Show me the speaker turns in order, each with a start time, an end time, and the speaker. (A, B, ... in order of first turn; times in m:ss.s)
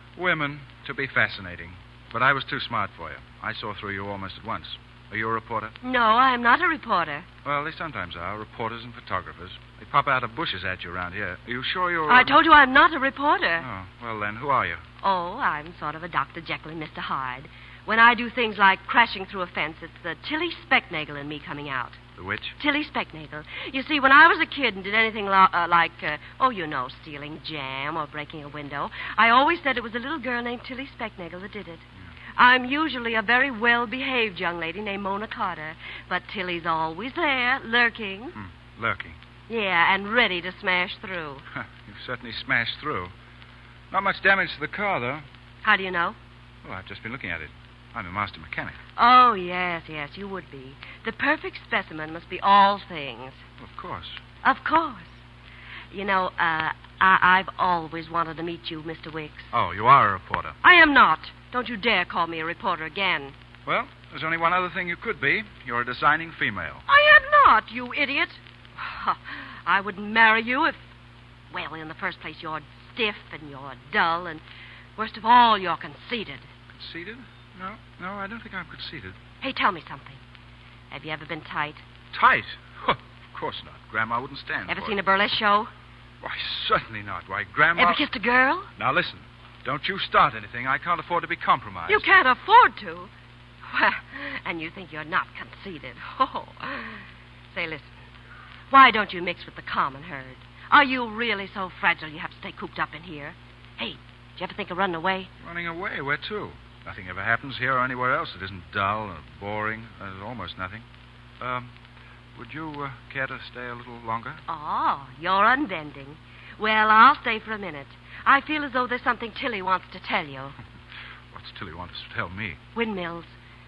0:00.2-0:05.7 A
0:05.8-0:07.2 B
0:07.4-0:12.4 A
0:12.1-0:13.6 B
0:13.6-0:14.8 A
0:15.0-0:22.0 B
0:22.2-0:22.6 A
0:22.6-0:31.8 B
0:32.4-0:38.3 B
0:38.3-0:39.2 A
0:39.5-0:41.4 B
0:41.5-0:43.1 A
0:43.9-0:45.2 A
0:45.6-0:46.2 B
0:46.6-0:48.8 A
0:49.0-0:53.4 B
0:53.6-0:54.2 A
0:54.4-0:55.1 B
0:55.9-0:59.5 B
0:59.5-1:00.6 A
1:00.6-1:03.3 B
1:03.6-1:06.8 A
1:06.9-1:10.8 B
1:11.5-1:14.4 B
1:15.0-1:16.5 B
1:16.7-1:19.2 A
1:19.4-1:20.2 B
1:20.9-1:21.8 B
1:22.1-1:25.0 A
1:24.7-1:25.7 B
1:26.2-1:28.0 A
1:27.8-1:28.7 B
1:28.8-1:32.0 A
1:31.9-1:33.1 B
1:33.7-1:37.9 B
1:38.7-1:45.3 B
1:45.4-1:50.8 A
1:51.4-1:51.7 A
1:52.3-1:54.4 A
1:54.5-2:00.6 B
2:01.3-2:02.6 A
2:02.7-2:03.3 B